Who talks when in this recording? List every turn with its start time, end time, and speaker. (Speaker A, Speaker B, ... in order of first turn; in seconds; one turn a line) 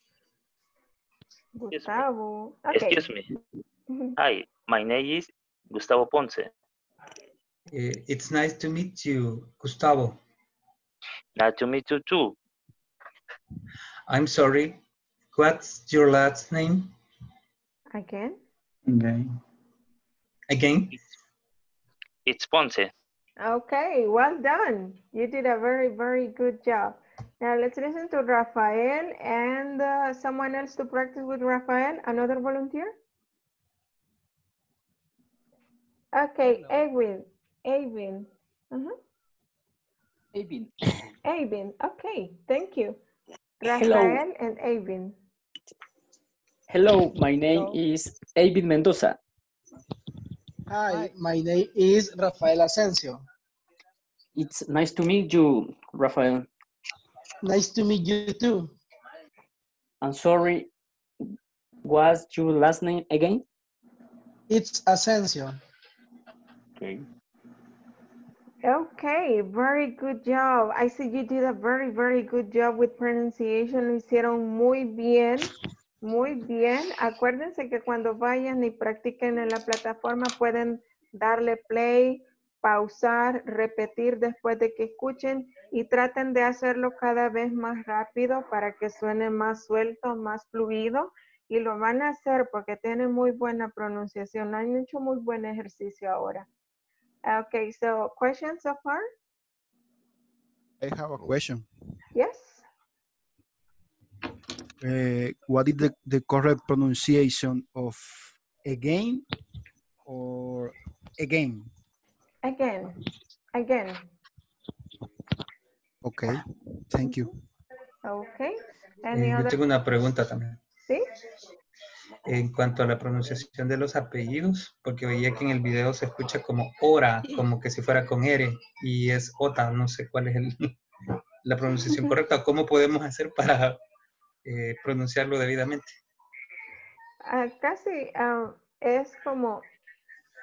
Speaker A: 1.6-3.1
Speaker B: 1.7-2.1
Speaker B: 2.7-3.3
Speaker A: 3.9-4.2
Speaker B: 4.2-6.5
Speaker C: 7.7-10.2
Speaker B: 11.4-12.3
Speaker C: 14.1-14.8
Speaker C: 15.3-16.9
Speaker A: 17.9-18.4
Speaker C: 20.5-20.9
Speaker B: 22.3-22.9
Speaker A: 23.4-33.0
Speaker A: 36.1-39.0
Speaker D: 40.3-41.1
Speaker A: 41.2-43.0
Speaker A: 43.6-45.2
Speaker D: 43.6-44.2
Speaker D: 46.7-49.2
Speaker E: 50.7-53.2
Speaker D: 54.4-56.5
Speaker E: 57.4-58.7
Speaker D: 60.0-60.7
Speaker D: 61.8-63.4
Speaker E: 64.5-65.6
Speaker D: 66.8-67.0
Speaker A: 68.6-96.5
Speaker A: 97.2-99.1
Speaker F: 100.8-101.7
Speaker A: 102.2-102.7
Speaker F: 104.8-109.2
Speaker F: 110.1-111.7
Speaker A: 112.4-113.0
Speaker A: 113.5-114.0
Speaker F: 116.0-117.3
Speaker A: 118.0-119.6
Speaker C: 119.1-120.6
Speaker C: 122.2-130.7
Speaker C: 131.4-133.8
Speaker C: 134.4-136.0
Speaker A: 137.3-139.7